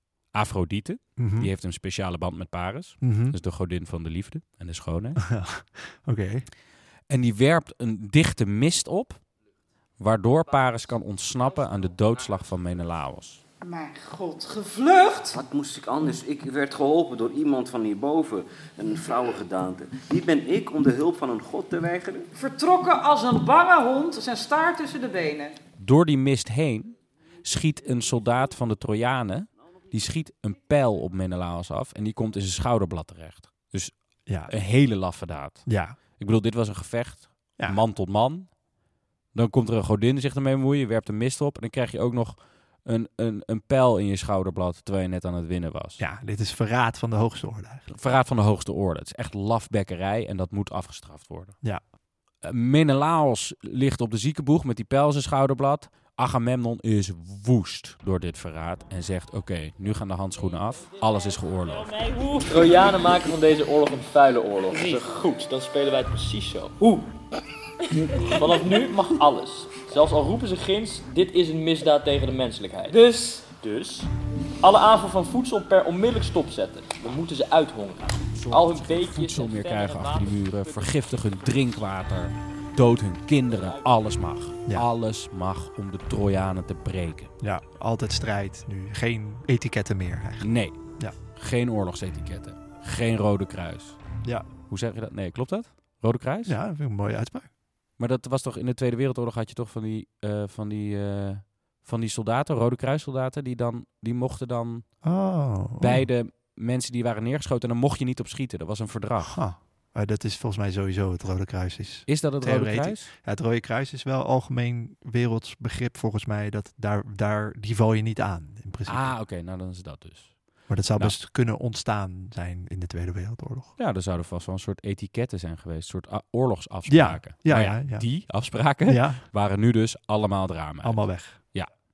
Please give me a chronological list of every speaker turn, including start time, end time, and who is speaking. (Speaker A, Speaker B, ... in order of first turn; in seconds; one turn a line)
Speaker A: 0.3-5.2
Speaker B: 1.2-1.5
Speaker B: 3.0-3.4
Speaker B: 5.2-6.4
Speaker A: 7.1-9.2
Speaker A: 10.0-13.4
Speaker C: 13.6-15.4
Speaker D: 15.3-22.3
Speaker C: 22.3-25.5
Speaker A: 25.8-38.5
Speaker B: 34.3-34.5
Speaker B: 35.7-36.0
Speaker A: 39.3-46.0
Speaker B: 46.0-47.9
Speaker A: 47.9-51.6
Speaker A: 52.4-62.0
Speaker E: 61.8-63.0
Speaker F: 62.5-67.1
Speaker E: 64.7-65.1
Speaker E: 68.1-68.5
Speaker F: 68.2-74.1
Speaker E: 72.9-73.4
Speaker F: 74.6-81.0
Speaker A: 78.3-87.3
Speaker B: 87.4-91.2
Speaker A: 90.4-90.8
Speaker A: 91.3-94.0
Speaker A: 94.7-96.6
Speaker B: 96.5-97.5
Speaker A: 98.0-104.9
Speaker B: 105.0-106.0
Speaker A: 105.8-109.4
Speaker B: 109.2-119.1
Speaker A: 112.1-113.1
Speaker A: 118.8-120.4
Speaker B: 120.7-123.7
Speaker A: 123.8-131.7
Speaker B: 126.8-128.1
Speaker B: 128.8-129.2
Speaker B: 130.8-131.4